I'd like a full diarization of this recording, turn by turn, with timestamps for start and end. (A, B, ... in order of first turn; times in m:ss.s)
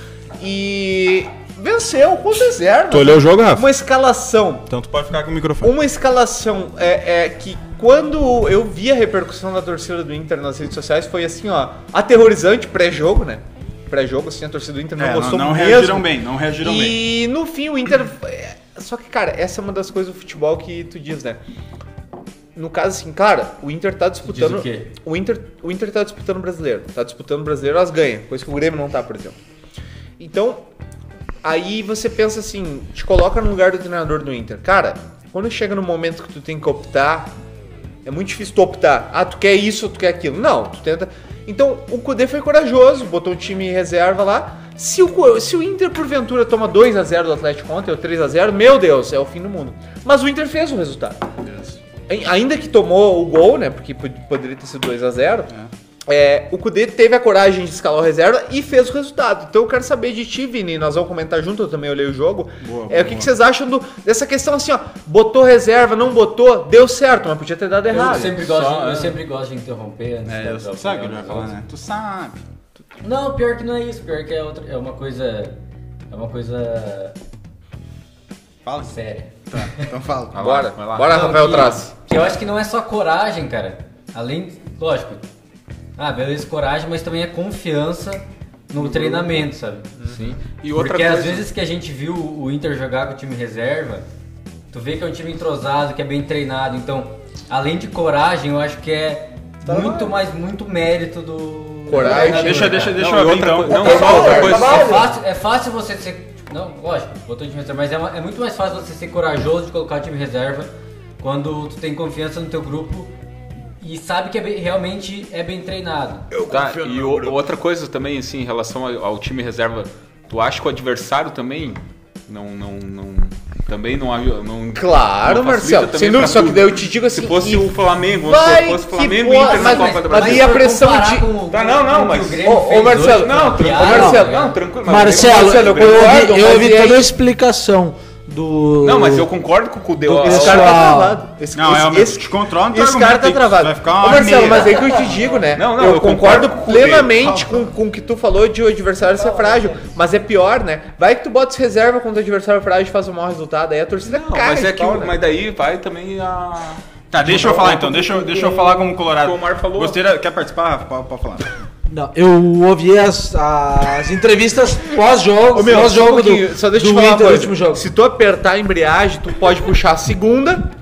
0:00.4-0:04.7 A
0:02.9-0:03.7 B
0:04.7-0:05.7 B
0:05.6-0:21.4 A
0:15.0-0:17.0 B
0:22.6-0:29.4 A
0:24.2-0:24.9 C
0:30.2-0:30.6 A
0:31.4-0:37.3 A
0:38.0-0:51.2 A
0:51.4-0:51.8 B
0:52.1-0:55.5 A
0:56.1-1:08.4 A
1:02.6-1:03.3 B
1:07.9-1:11.5 C
1:07.9-1:09.2 D
1:10.2-1:12.4 B
1:13.0-1:15.6 C
1:16.1-1:17.2 C
1:18.6-1:20.4 B
1:18.8-1:19.9 C
1:20.3-1:21.8 D
1:20.4-1:21.9 A
1:21.1-1:25.3 C
1:26.0-1:29.9 C
1:28.8-1:29.4 D
1:30.0-1:31.5 D
1:30.7-1:34.0 C
1:34.7-1:43.0 C
1:39.6-1:40.1 E
1:41.9-1:42.9 A
1:42.0-1:42.3 E
1:42.2-1:44.4 B
1:42.8-1:45.0 D
1:43.7-1:44.7 A
1:43.7-1:45.1 E
1:44.0-1:53.1 C
1:53.8-1:56.3 C
1:56.4-2:10.6 D
1:56.4-1:57.3 B
2:04.8-2:11.3 A
2:09.4-2:14.6 C
2:11.5-2:16.3 D
2:12.4-2:14.5 A
2:13.8-2:14.2 E
2:14.9-2:19.3 E
2:15.0-2:17.1 A
2:18.8-2:20.9 D
2:20.1-2:35.2 A
2:20.1-2:21.2 E
2:21.6-2:24.8 B
2:24.8-2:25.4 E
2:25.5-2:27.4 D
2:29.0-2:30.0 E
2:34.0-2:36.8 D
2:37.1-2:41.5 B
2:37.2-2:39.0 E
2:39.0-2:40.0 D
2:41.9-2:47.8 E
2:45.5-2:50.6 A